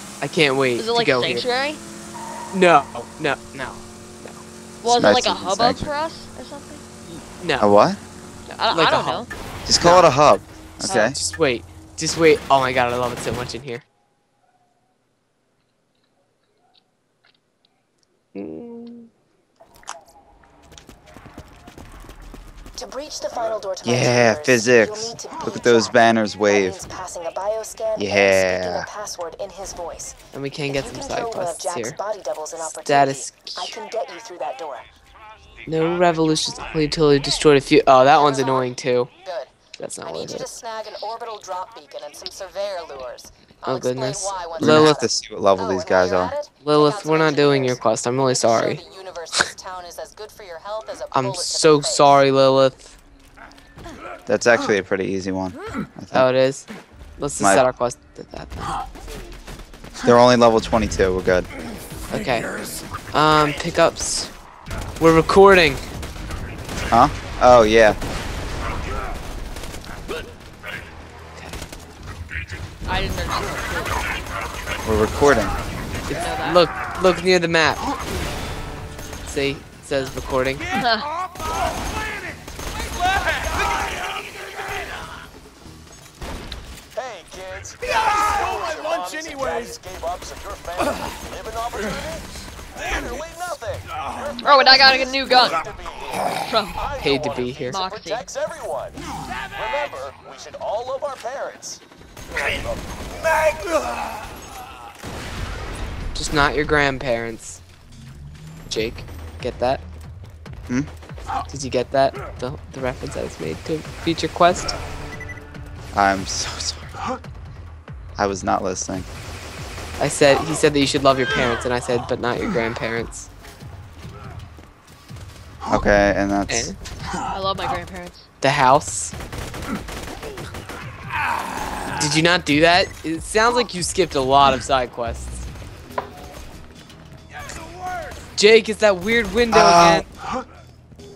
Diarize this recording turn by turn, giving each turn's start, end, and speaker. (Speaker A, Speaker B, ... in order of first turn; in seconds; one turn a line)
Speaker A: 0.2-1.4
Speaker B: 0.8-1.8
Speaker A: 2.5-4.4
Speaker B: 4.8-6.9
Speaker C: 4.9-5.8
Speaker A: 7.1-7.7
Speaker C: 7.6-8.0
Speaker A: 8.5-9.3
Speaker B: 8.5-9.3
Speaker C: 9.7-11.2
Speaker A: 9.8-10.1
Speaker A: 10.8-13.8
Speaker A: 18.3-19.1
Speaker D: 22.8-25.9
Speaker C: 23.8-26.8
Speaker D: 26.5-30.2
Speaker C: 28.0-28.9
Speaker A: 30.3-32.0
Speaker D: 30.7-34.9
Speaker A: 32.6-33.8
Speaker A: 35.7-39.1
Speaker D: 38.1-38.7
Speaker D: 39.2-39.5
Speaker A: 39.8-40.5
Speaker D: 40.0-52.2
Speaker A: 43.7-45.0
Speaker C: 44.6-46.4
Speaker A: 46.6-48.8
Speaker A: 51.1-53.0
Speaker C: 54.3-56.3
Speaker A: 56.1-58.8
Speaker C: 57.4-57.7
Speaker C: 60.0-61.5
Speaker A: 62.1-62.5
Speaker A: 63.1-64.3
Speaker A: 65.0-65.8
Speaker C: 66.9-68.0
Speaker A: 71.4-71.6
Speaker B: 72.8-74.2
Speaker C: 74.8-75.5
Speaker A: 76.1-77.8
Speaker B: 76.2-76.6
Speaker A: 79.2-80.6
Speaker B: 80.8-81.1
Speaker E: 87.0-92.3
Speaker E: 92.8-99.0
Speaker B: 94.4-95.6
Speaker B: 96.4-96.8
Speaker A: 97.0-97.8
Speaker B: 97.7-98.3
Speaker E: 99.5-101.8
Speaker E: 102.4-103.6
Speaker A: 106.2-107.6
Speaker A: 108.7-109.8
Speaker A: 111.5-114.8
Speaker C: 115.9-116.9
Speaker C: 118.2-119.1
Speaker A: 120.0-123.3
Speaker C: 125.7-126.7
Speaker A: 126.5-126.8
Speaker B: 127.3-128.3
Speaker A: 128.4-129.1
Speaker A: 131.9-135.5
Speaker A: 138.4-140.1
Speaker C: 139.5-140.1